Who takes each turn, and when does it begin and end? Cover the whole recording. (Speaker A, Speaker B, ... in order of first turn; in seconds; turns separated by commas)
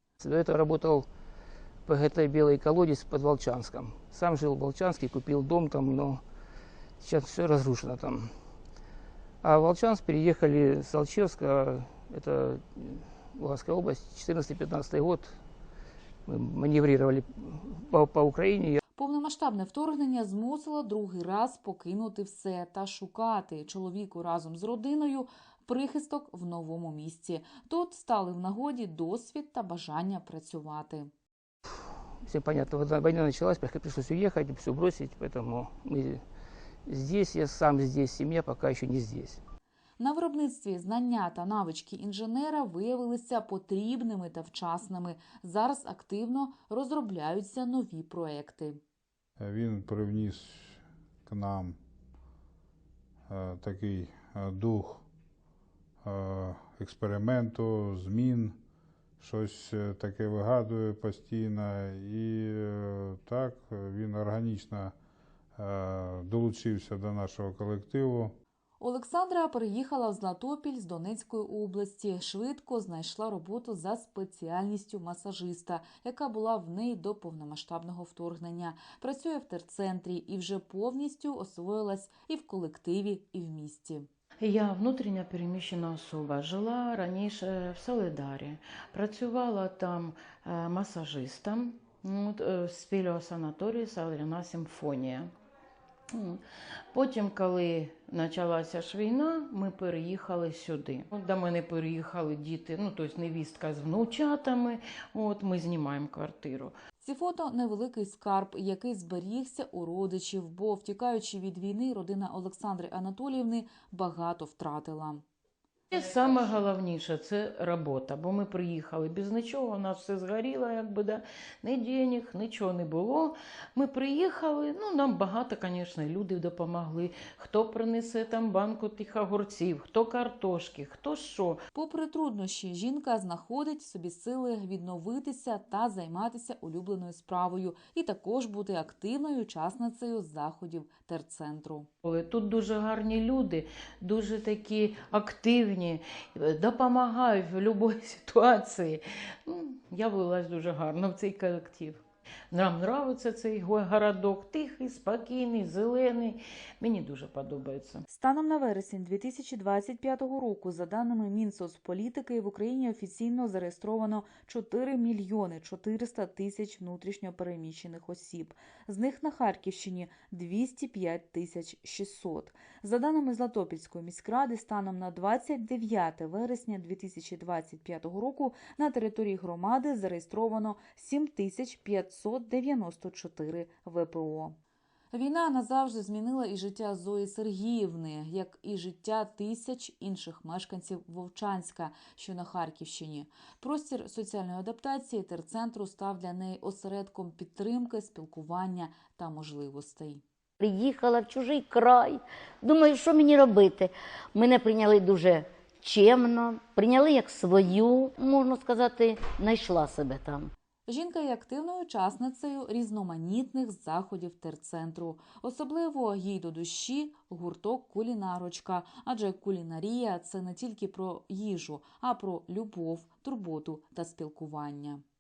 Speaker A: 0.2-1.1, Speaker A: 1.9-6.2, Speaker A: 7.0-8.3, Speaker A: 9.4-15.4, Speaker A: 16.3-18.8, Speaker B: 19.0-31.1, Speaker A: 32.2-36.2, Speaker A: 36.9-39.4, Speaker B: 40.0-48.8, Speaker C: 49.4-51.8, Speaker C: 53.3-55.1, Speaker C: 56.0-58.6, Speaker C: 59.2-65.0, Speaker C: 65.6-68.4, Speaker B: 68.8-84.1, Speaker D: 84.4-95.3, Speaker D: 96.1-96.4, Speaker D: 96.9-106.8, Speaker B: 107.0-115.2, Speaker D: 115.9-131.6, Speaker B: 131.7-141.9, Speaker D: 142.0-158.0, Speaker B: 158.1-184.6, Speaker B: 185.1-200.2, Speaker E: 200.6-210.5, Speaker B: 210.9-225.0